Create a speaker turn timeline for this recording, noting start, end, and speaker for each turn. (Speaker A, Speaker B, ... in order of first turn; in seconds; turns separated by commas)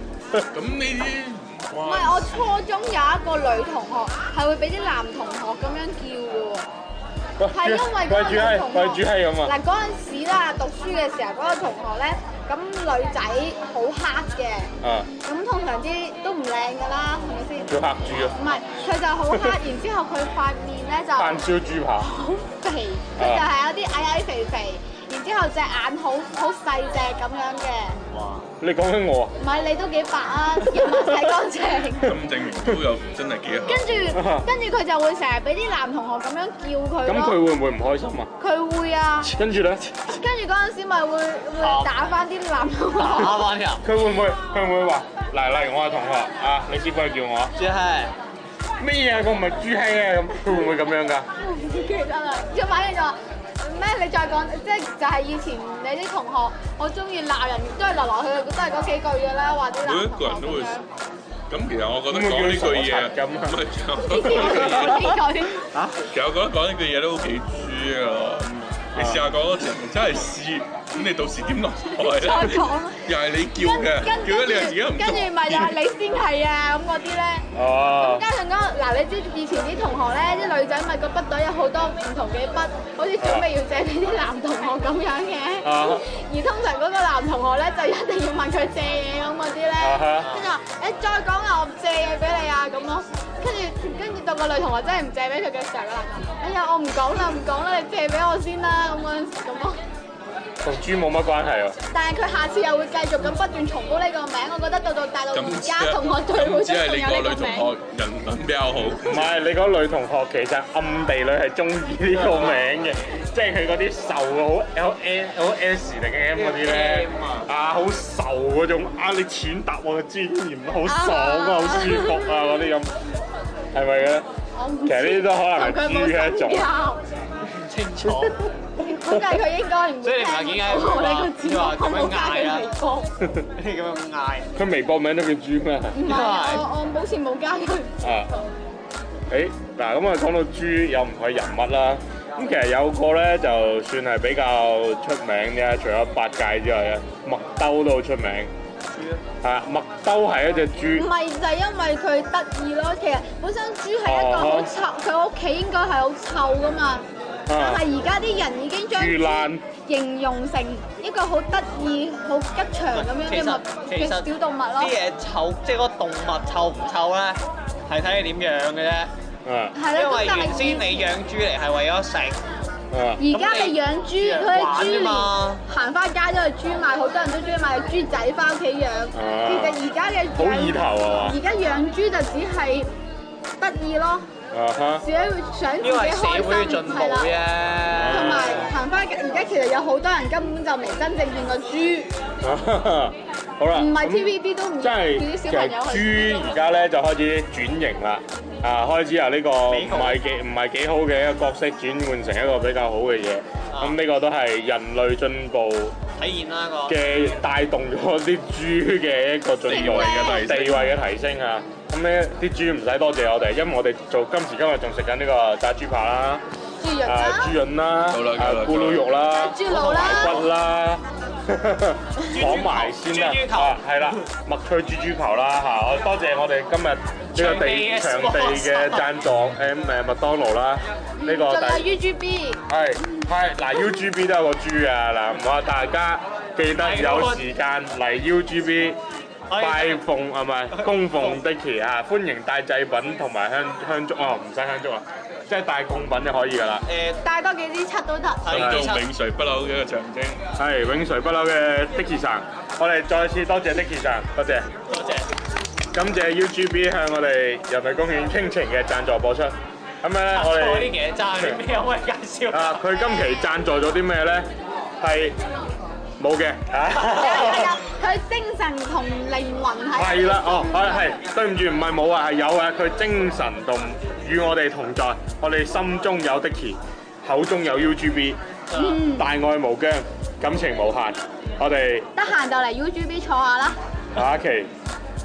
Speaker A: 0.5-2.5, Speaker B: 1.8-6.7, Speaker C: 7.4-9.5, Speaker B: 7.5-21.4, Speaker C: 14.8-15.1, Speaker C: 17.7-18.6, Speaker C: 19.3-19.6, Speaker C: 21.2-22.1, Speaker B: 22.0-28.0, Speaker C: 23.2-23.4, Speaker D: 28.1-28.5, Speaker C: 28.6-29.4, Speaker B: 29.4-32.1, Speaker C: 30.6-31.4, Speaker A: 32.0-34.2, Speaker B: 33.7-37.4, Speaker C: 34.1-34.5, Speaker C: 37.0-38.3, Speaker B: 38.4-39.3, Speaker C: 39.3-40.0, Speaker B: 40.1-43.5, Speaker D: 41.6-41.9, Speaker D: 43.0-43.9, Speaker C: 43.8-47.5, Speaker D: 47.6-48.1, Speaker C: 48.8-51.3, Speaker B: 51.4-60.9, Speaker A: 59.8-60.8, Speaker A: 61.5-65.2, Speaker C: 62.1-63.6, Speaker B: 64.1-65.6, Speaker C: 64.3-65.2, Speaker C: 65.7-66.0, Speaker A: 66.0-75.8, Speaker C: 69.0-69.2, Speaker B: 72.0-99.8, Speaker C: 77.5-78.2, Speaker C: 83.2-83.5, Speaker C: 85.6-86.0, Speaker C: 89.8-90.3, Speaker D: 90.2-90.5, Speaker C: 100.6-101.8, Speaker B: 101.9-107.7, Speaker A: 105.3-109.3, Speaker C: 109.0-122.9, Speaker D: 112.1-113.0, Speaker D: 116.4-117.5, Speaker B: 120.9-122.3, Speaker C: 123.7-124.3, Speaker B: 124.6-127.0, Speaker C: 124.9-126.7, Speaker D: 127.5-128.5, Speaker C: 128.1-128.3, Speaker B: 128.8-133.1, Speaker C: 128.9-129.2, Speaker D: 130.0-132.7, Speaker D: 133.6-134.5, Speaker C: 134.6-136.1, Speaker B: 135.9-138.0, Speaker D: 136.1-136.7, Speaker C: 138.0-138.3, Speaker C: 139.3-148.5, Speaker D: 148.9-149.2, Speaker C: 149.4-151.1, Speaker B: 150.9-164.9, Speaker C: 154.1-154.7, Speaker C: 157.5-157.8, Speaker C: 158.9-159.6, Speaker D: 162.9-169.1, Speaker C: 169.4-169.8, Speaker B: 169.7-171.2, Speaker D: 169.9-172.4, Speaker C: 172.9-173.2, Speaker B: 173.2-182.9, Speaker D: 173.3-175.6, Speaker C: 179.1-179.8, Speaker C: 180.4-181.4, Speaker B: 183.6-184.3, Speaker C: 184.5-185.1, Speaker B: 185.0-187.3, Speaker D: 185.8-188.7, Speaker C: 187.9-188.7, Speaker B: 188.1-192.1, Speaker C: 192.4-206.0, Speaker B: 193.7-196.5, Speaker D: 199.7-200.2, Speaker D: 203.7-204.0, Speaker D: 206.2-207.0, Speaker C: 206.9-216.4, Speaker A: 209.7-211.0, Speaker B: 209.7-210.5, Speaker B: 216.8-217.5, Speaker C: 217.1-231.9, Speaker A: 218.1-219.2, Speaker B: 219.3-220.4, Speaker D: 219.9-220.4, Speaker D: 222.3-224.2, Speaker D: 227.3-229.1, Speaker B: 231.2-232.6, Speaker C: 232.7-239.0, Speaker D: 236.8-237.4, Speaker D: 239.5-240.1, Speaker C: 239.5-246.9, Speaker D: 240.7-241.4, Speaker D: 246.9-247.2, Speaker B: 247.2-248.5, Speaker D: 248.4-249.1, Speaker A: 248.5-250.4, Speaker C: 248.5-248.9, Speaker C: 250.6-254.7, Speaker D: 254.9-255.3, Speaker C: 255.9-261.6, Speaker D: 260.3-262.8, Speaker C: 262.5-264.5, Speaker C: 265.0-265.4, Speaker C: 266.2-267.8, Speaker B: 267.2-271.1, Speaker C: 269.9-282.1, Speaker D: 278.7-279.0, Speaker B: 278.7-279.3, Speaker B: 282.2-283.8, Speaker C: 284.1-284.7